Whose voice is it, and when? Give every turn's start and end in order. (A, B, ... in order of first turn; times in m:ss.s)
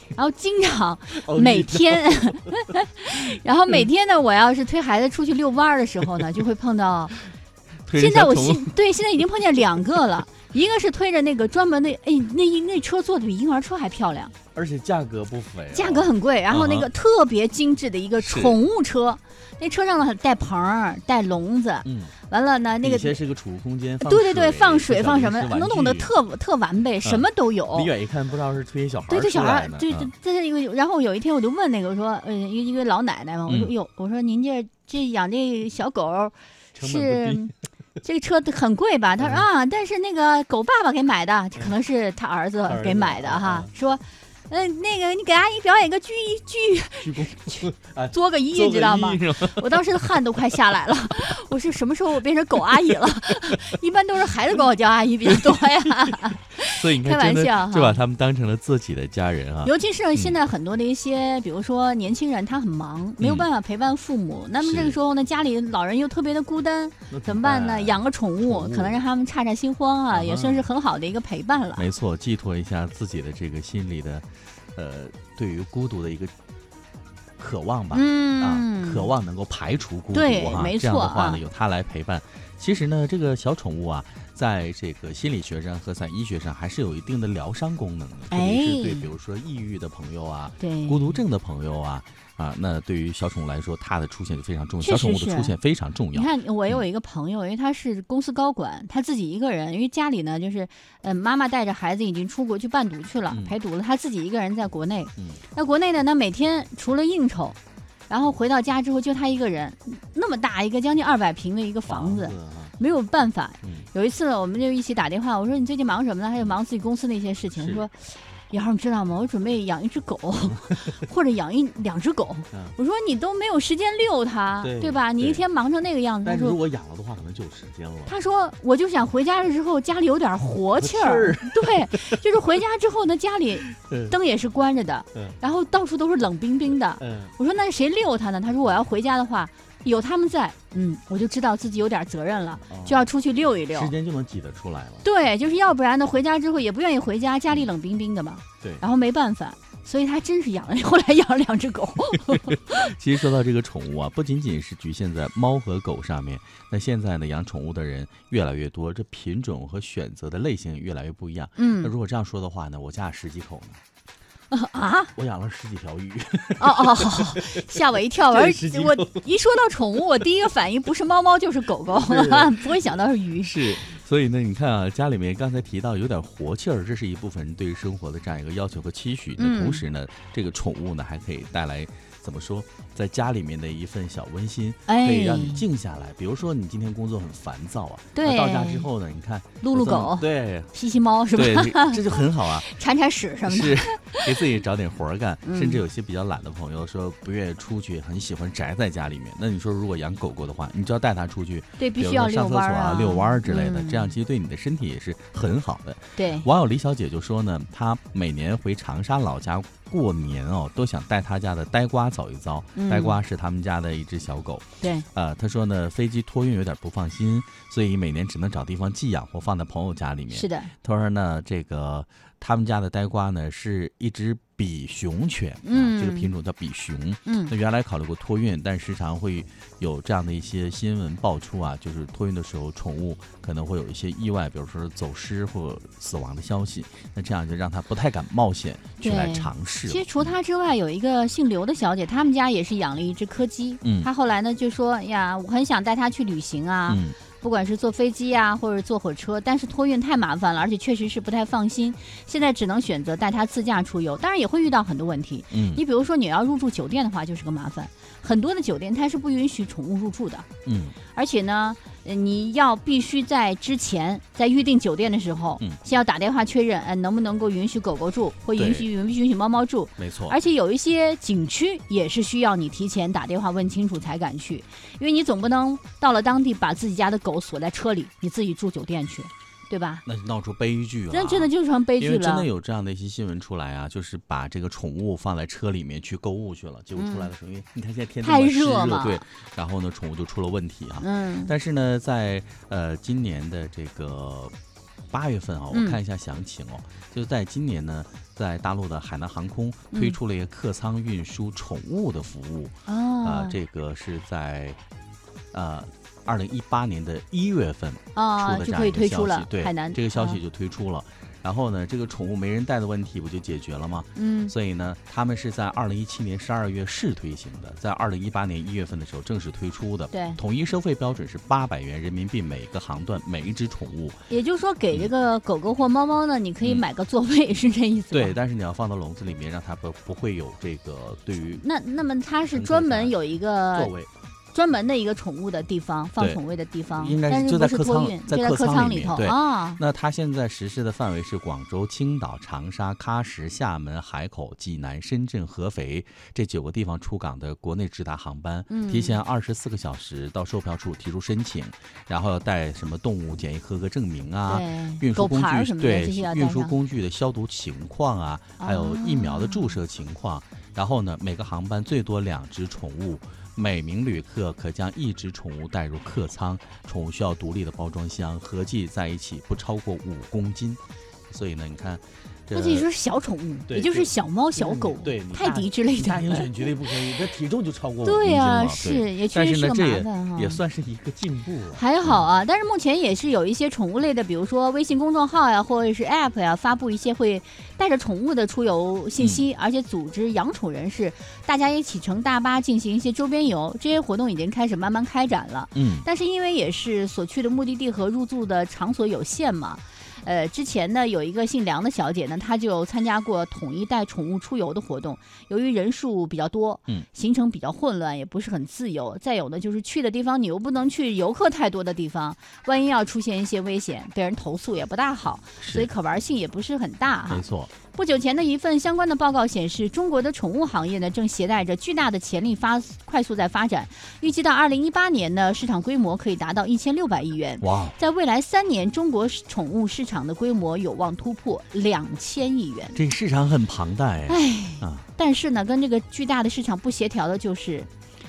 0:00.1-0:07.1 A
0:01.1-0:02.5 B
0:07.8-0:08.7 B
0:07.9-0:14.3 A
0:14.5-0:16.9 B
0:15.7-0:23.2 A
0:18.2-0:18.6 B
0:21.8-0:22.1 B
0:22.8-0:26.1 B
0:24.0-0:27.9 A
0:27.0-0:30.1 B
0:29.1-0:58.0 A
0:33.5-0:33.7 B
0:36.7-0:37.5 B
0:39.2-0:39.4 B
0:42.7-0:43.7 B
0:47.0-0:50.5 B
0:55.3-0:55.6 B
0:56.6-1:00.4 B
0:59.6-1:11.8 A
1:03.2-1:03.5 B
1:04.6-1:05.0 B
1:07.1-1:09.0 B
1:10.1-1:10.7 B
1:11.8-1:16.3 B
1:17.4-1:36.8 B
1:17.9-1:19.1 A
1:20.1-1:21.4 A
1:28.3-1:29.1 A
1:30.6-1:31.2 A
1:34.8-1:35.6 A
1:36.1-2:06.6 A
1:43.3-1:43.6 B
1:51.9-1:52.7 B
1:53.6-1:53.9 B
1:57.5-1:57.9 B
2:00.5-2:01.0 B
2:04.6-2:05.4 B
2:06.2-2:08.2 B
2:08.1-2:23.9 A
2:10.8-2:12.2 B
2:13.7-2:14.1 B
2:17.0-2:17.3 B
2:22.7-2:23.1 B
2:23.7-2:25.0 B
2:25.0-2:32.9 A
2:32.5-2:43.8 B
2:41.6-2:41.9 A
2:44.5-2:45.1 A
2:45.2-2:47.6 B
2:46.6-2:53.7 A
2:48.3-2:49.2 B
2:51.9-3:10.7 B
2:59.4-2:59.8 A
3:04.9-3:05.6 A
3:08.1-3:08.9 A
3:09.6-3:14.4 A
3:11.3-3:12.7 B
3:13.4-4:00.3 B
3:15.4-3:15.8 A
3:21.8-3:24.2 A
3:26.2-3:26.5 A
3:32.7-3:33.2 A
3:34.8-3:35.1 A
3:40.3-3:40.7 A
3:45.6-3:46.3 A
3:47.2-3:47.5 A
3:59.0-4:20.5 A
4:03.8-4:04.1 B
4:06.9-4:07.2 B
4:15.5-4:15.8 B
4:20.6-4:21.0 B
4:21.1-4:40.0 A
4:28.6-4:28.9 B
4:30.0-4:30.4 B
4:40.0-4:54.5 B
4:41.1-4:42.5 A
4:47.0-4:47.3 A
4:48.2-4:49.2 A
4:51.0-4:51.5 A
4:55.1-5:04.8 B
4:55.7-4:56.0 A
4:59.9-5:00.2 A
5:02.9-5:03.6 A
5:05.5-5:24.2 B
5:08.1-5:10.4 A
5:14.2-5:14.5 A
5:20.1-5:20.4 A
5:24.3-5:28.4 A
5:28.1-5:31.6 B
5:31.6-5:33.9 A
5:32.5-5:33.2 B
5:33.7-5:34.1 B
5:34.5-5:39.8 A
5:36.9-6:12.9 B
5:48.7-5:49.2 A
5:54.5-5:56.7 A
5:58.6-5:59.8 A
6:12.5-6:16.5 A
6:13.7-6:22.2 B
6:18.0-6:20.6 A
6:21.7-7:13.0 A
6:29.2-6:29.4 B
6:35.8-6:36.1 B
6:55.6-6:55.9 B
6:57.3-6:57.7 B
7:07.6-7:07.9 B
7:12.9-7:15.1 B
7:14.3-7:17.9 A